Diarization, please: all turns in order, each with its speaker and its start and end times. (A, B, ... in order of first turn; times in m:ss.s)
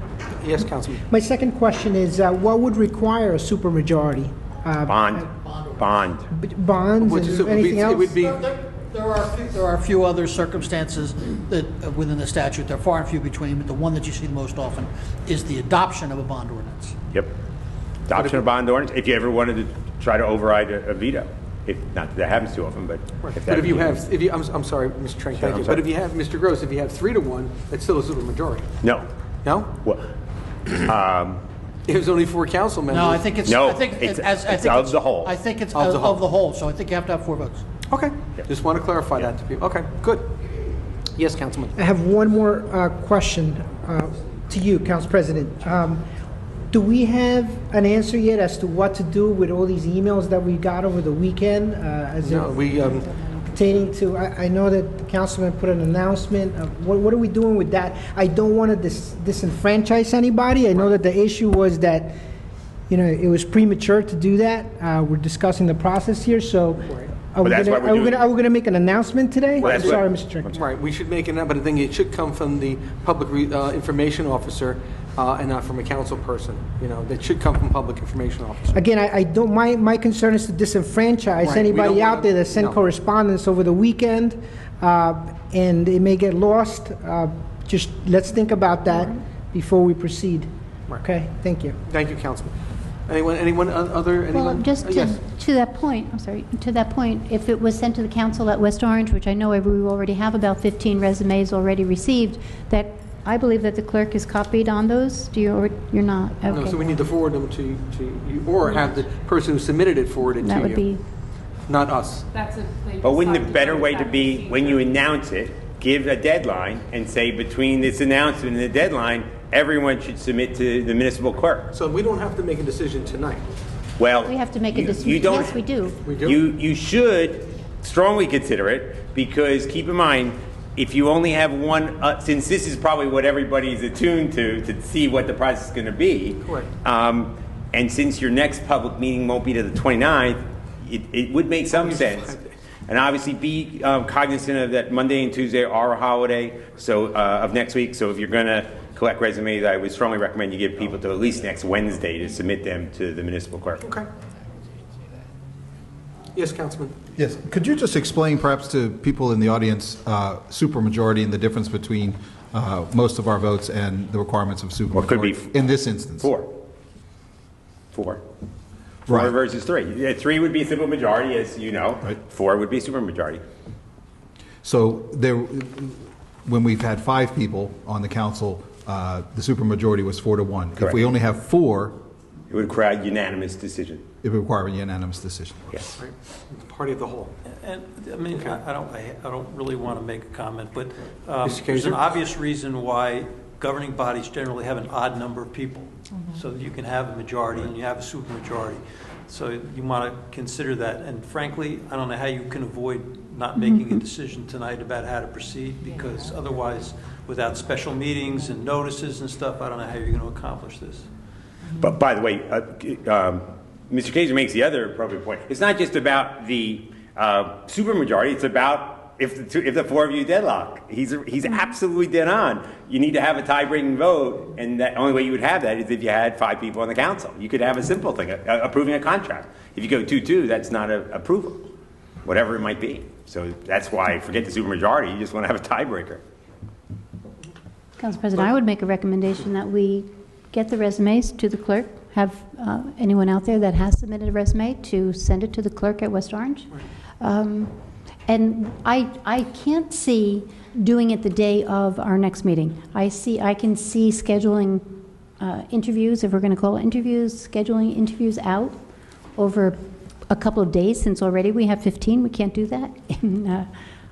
0:00.4-0:01.0 A
0:01.1-0:05.3 B
0:04.9-0:06.2 C
0:06.3-0:08.3 B
0:07.0-0:08.4 A
0:08.2-0:17.0 D
0:18.1-0:24.0 C
0:18.1-0:18.5 A
0:23.2-0:28.7 A
0:25.4-0:25.8 C
0:28.8-0:29.1 C
0:29.4-0:29.7 A
0:29.8-0:30.1 C
0:30.7-0:31.4 C
0:31.8-0:33.3 A
0:32.9-0:37.7 D
0:33.5-0:35.3 C
0:35.7-0:36.2 A
0:37.9-0:40.4 A
0:41.1-0:41.8 A
0:41.8-0:46.0 B
0:46.7-0:52.7 B
0:52.2-0:53.1 A
0:53.5-1:02.1 B
1:02.9-1:10.5 B
1:07.4-1:08.2 C
1:09.6-1:10.6 C
1:09.6-1:18.8 A
1:18.7-1:30.5 B
1:21.4-1:22.8 A
1:31.0-1:31.8 B
1:31.9-1:32.5 A
1:33.1-1:35.2 A
1:34.3-1:46.8 E
1:46.5-1:50.8 A
1:50.4-1:51.0 E
1:51.7-1:52.2 A
1:52.3-1:54.8 F
1:53.0-2:01.7 C
2:01.7-2:03.5 A
2:04.0-2:05.6 C
2:04.2-2:06.0 E
2:06.0-2:06.4 A
2:06.2-2:22.4 C
2:16.4-2:16.7 A
2:21.7-2:22.5 A
2:22.9-2:33.8 C
2:33.8-2:34.1 A
2:36.3-2:36.9 A
2:37.2-2:46.3 G
2:44.9-2:45.6 C
2:46.2-2:46.5 C
2:47.9-2:48.2 C
2:49.1-2:49.3 G
2:49.1-2:53.4 C
2:54.6-3:02.0 G
3:02.5-3:04.0 C
3:04.2-3:05.7 G
3:06.0-3:07.3 A
3:07.6-3:31.1 H
3:08.3-3:08.6 A
3:11.4-3:12.2 A
3:23.6-3:24.0 E
3:31.8-3:51.6 C
3:52.2-3:56.2 C
3:58.0-4:07.7 E
4:08.3-4:14.8 E
4:15.4-4:18.8 E
4:19.4-4:19.8 E
4:20.3-4:23.7 E